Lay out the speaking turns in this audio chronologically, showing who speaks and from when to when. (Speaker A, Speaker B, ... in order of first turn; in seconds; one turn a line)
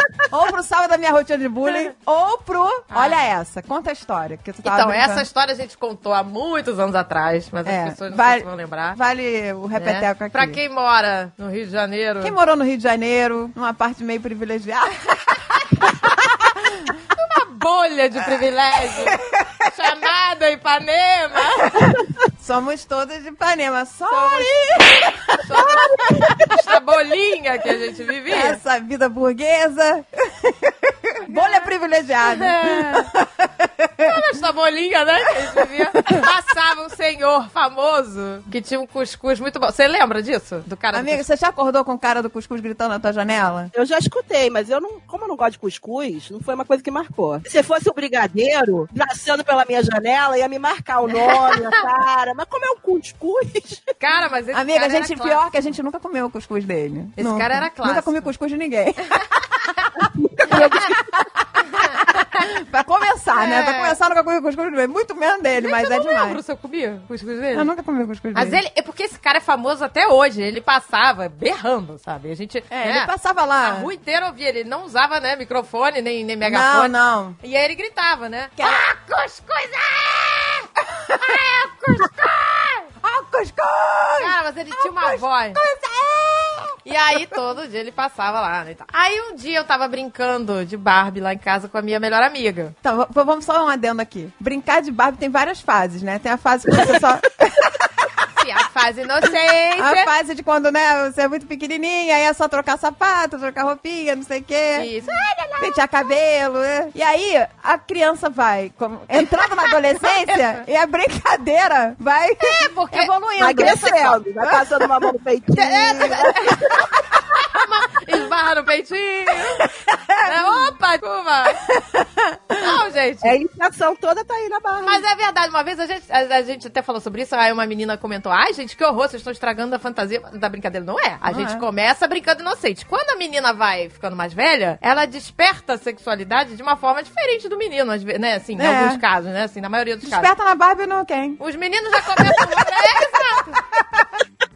Speaker A: 0.3-5.3
Speaker B: 2.9-3.2
Speaker B: 4.6-9.0
Speaker A: 7.7-10.6
Speaker B: 9.8-12.4
Speaker A: 12.2-17.0
Speaker B: 17.1-22.0
Speaker A: 18.9-19.6
Speaker A: 21.8-26.6
Speaker B: 24.1-28.6
Speaker C: 25.6-26.3
Speaker A: 28.3-34.2
Speaker B: 31.3-31.6
Speaker B: 32.2-33.1
Speaker B: 34.0-41.2
Speaker A: 36.0-36.3
Speaker A: 40.9-43.7
Speaker C: 43.7-53.9
Speaker B: 54.0-55.5
Speaker A: 54.5-59.6
Speaker B: 57.2-58.3
Speaker C: 60.0-61.0
Speaker A: 60.6-66.4
Speaker B: 61.7-62.4
Speaker B: 63.4-64.0
Speaker B: 65.6-67.7
Speaker A: 67.5-68.6
Speaker B: 68.3-82.9
Speaker A: 72.7-73.9
Speaker A: 76.4-77.4
Speaker A: 78.6-78.8
Speaker A: 81.0-81.3
Speaker A: 83.0-86.8
Speaker B: 84.2-85.6
Speaker B: 86.8-92.8
Speaker A: 92.8-98.1
Speaker B: 98.4-100.1
Speaker A: 99.8-104.9
Speaker B: 104.8-105.6
Speaker A: 105.6-114.6
Speaker B: 110.3-110.6
Speaker B: 112.4-113.7
Speaker C: 113.4-116.8
Speaker B: 115.6-119.7
Speaker A: 119.7-120.7
Speaker B: 120.2-121.7
Speaker A: 121.7-122.7
Speaker B: 122.6-123.4
Speaker C: 123.2-125.0
Speaker B: 124.8-140.3
Speaker A: 131.3-131.6
Speaker A: 138.6-139.0
Speaker A: 140.0-141.4
Speaker B: 141.4-143.7
Speaker A: 142.2-142.5
Speaker A: 143.7-144.1